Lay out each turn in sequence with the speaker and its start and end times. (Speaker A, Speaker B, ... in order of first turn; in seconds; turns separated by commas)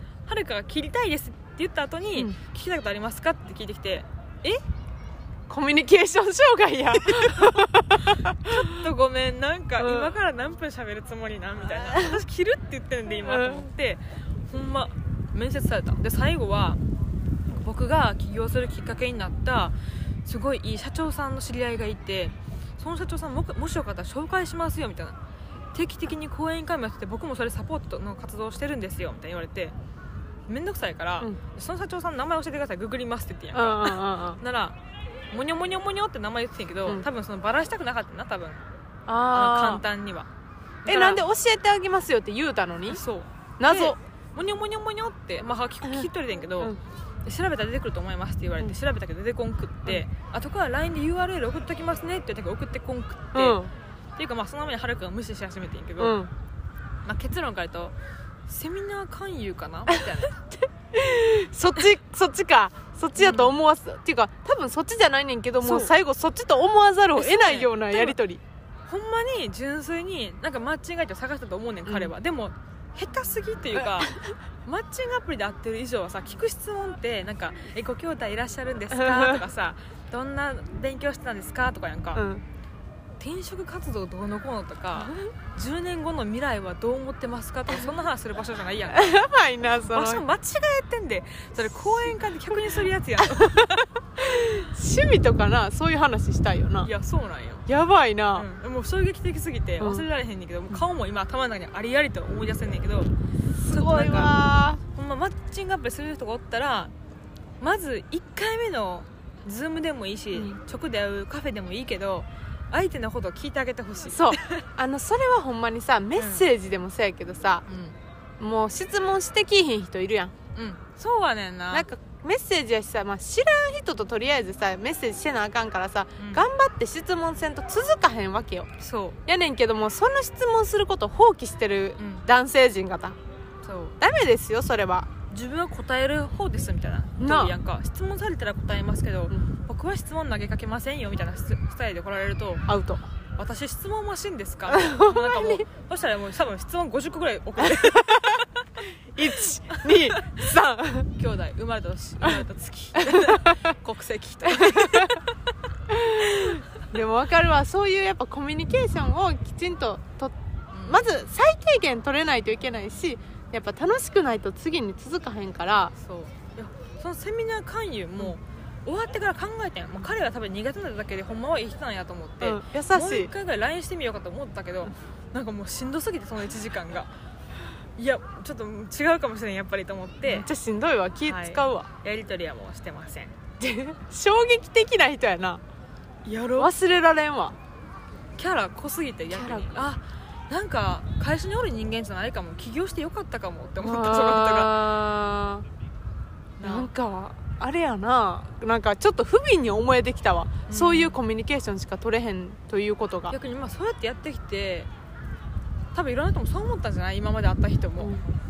Speaker A: 0.3-4.6, Speaker B: 5.5-8.7, Speaker A: 7.0-16.8, Speaker B: 9.8-10.1, Speaker B: 13.2-13.7, Speaker A: 17.5-25.2, Speaker A: 25.7-29.7, Speaker A: 30.5-34.8, Speaker B: 33.5-34.4, Speaker A: 35.3-38.6, Speaker B: 39.1-39.9, Speaker A: 39.3-40.3, Speaker A: 40.9-41.2, Speaker B: 40.9-43.0, Speaker A: 42.9-46.7, Speaker B: 43.6-44.0, Speaker A: 47.3-53.6, Speaker B: 53.3-53.7, Speaker A: 54.2-56.2, Speaker B: 56.0-56.3, Speaker A: 57.0-58.0, Speaker A: 58.5-60.5, Speaker B: 60.9-68.4, Speaker A: 63.2-63.6, Speaker A: 65.6-65.9, Speaker A: 67.2-68.2, Speaker A: 68.9-82.2, Speaker B: 71.9-72.1, Speaker B: 73.8-74.3, Speaker B: 78.9-79.4, Speaker B: 82.2-82.4, Speaker A: 83.2-89.2, Speaker B: 88.9-90.2, Speaker A: 89.8-94.5, Speaker B: 91.6-92.1, Speaker B: 93.3-96.9, Speaker A: 96.8-97.7, Speaker B: 97.7-98.5, Speaker A: 98.3-103.1, Speaker B: 99.8-100.1, Speaker B: 103.6-104.8, Speaker A: 103.6-104.4, Speaker A: 104.9-106.9, Speaker A: 107.6-114.7, Speaker B: 114.1-117.7, Speaker A: 116.2-116.5, Speaker A: 117.7-118.0, Speaker B: 118.4-120.3, Speaker A: 120.5-121.9, Speaker B: 121.7-128.7, Speaker A: 126.2-126.5, Speaker A: 128.8-129.2, Speaker B: 129.3-133.2, Speaker A: 132.0-132.3, Speaker A: 133.6-134.0, Speaker B: 134.0-135.1, Speaker A: 135.3-142.7, Speaker B: 137.2-137.6, Speaker B: 142.7-143.1, Speaker A: 143.4-148.4, Speaker B: 144.7-145.7, Speaker B: 147.6-148.4, Speaker B: 149.2-151.1, Speaker A: 149.7-150.3, Speaker A: 151.2-155.3, Speaker B: 153.0-153.6, Speaker B: 154.4-155.2, Speaker B: 155.9-160.3, Speaker A: 160.7-161.2, Speaker B: 160.9-165.9, Speaker A: 166.0-177.1, Speaker B: 172.4-173.3, Speaker A: 178.0-180.5, Speaker B: 180.2-181.9, Speaker A: 181.3-183.4, Speaker B: 183.6-185.6, Speaker A: 186.2-186.7, Speaker B: 186.6-187.6, Speaker A: 188.4-194.7, Speaker B: 189.3-189.9, Speaker B: 193.8-195.7, Speaker A: 196.6-196.9, Speaker B: 196.6-203.3, Speaker A: 200.7-201.2, Speaker A: 203.3-204.9, Speaker A: 205.9-208.1, Speaker B: 208.0-208.3